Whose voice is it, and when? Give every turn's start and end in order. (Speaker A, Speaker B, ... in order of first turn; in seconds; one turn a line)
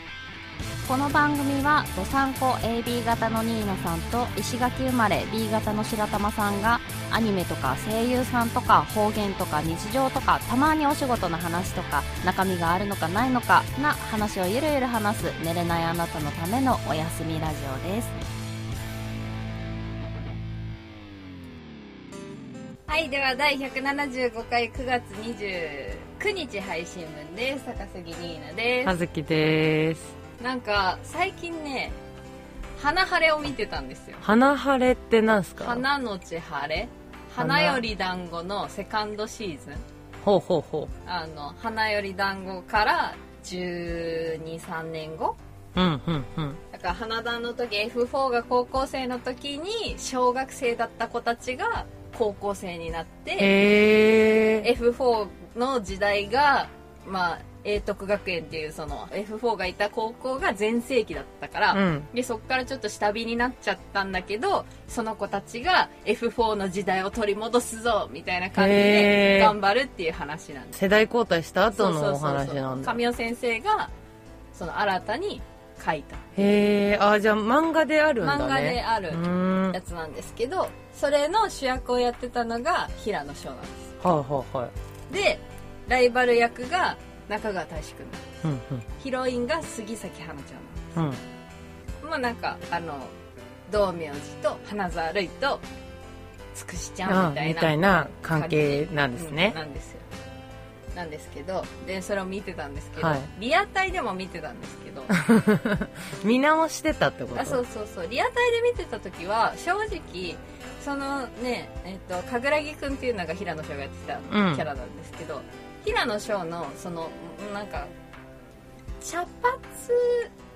Speaker A: 0.8-18.2
Speaker B: 22.9-28.9
Speaker C: 28.8-30.1
Speaker B: 30.4-32.0
Speaker B: 32.8-34.2
Speaker C: 34.2-35.8
Speaker B: 35.6-39.8
Speaker C: 37.4-37.9
Speaker C: 40.2-40.9
Speaker B: 41.0-45.4
Speaker C: 45.8-46.6
Speaker B: 46.7-53.6
Speaker C: 53.4-54.7
Speaker B: 54.6-70.8
Speaker C: 61.7-62.1
Speaker C: 68.6-69.6
Speaker C: 70.8-73.0
Speaker B: 71.8-73.9
Speaker B: 74.5-76.3
Speaker C: 76.4-79.8
Speaker B: 78.2-83.9
Speaker C: 84.0-84.7
Speaker B: 85.1-88.3
Speaker C: 88.4-88.9
Speaker B: 89.0-91.0
Speaker B: 92.0-93.1
Speaker B: 93.7-95.6
Speaker B: 96.5-100.1
Speaker C: 97.1-99.6
Speaker B: 101.0-105.2
Speaker C: 103.0-103.3
Speaker C: 105.1-107.6
Speaker B: 107.3-117.9
Speaker C: 114.3-114.7
Speaker B: 119.0-120.3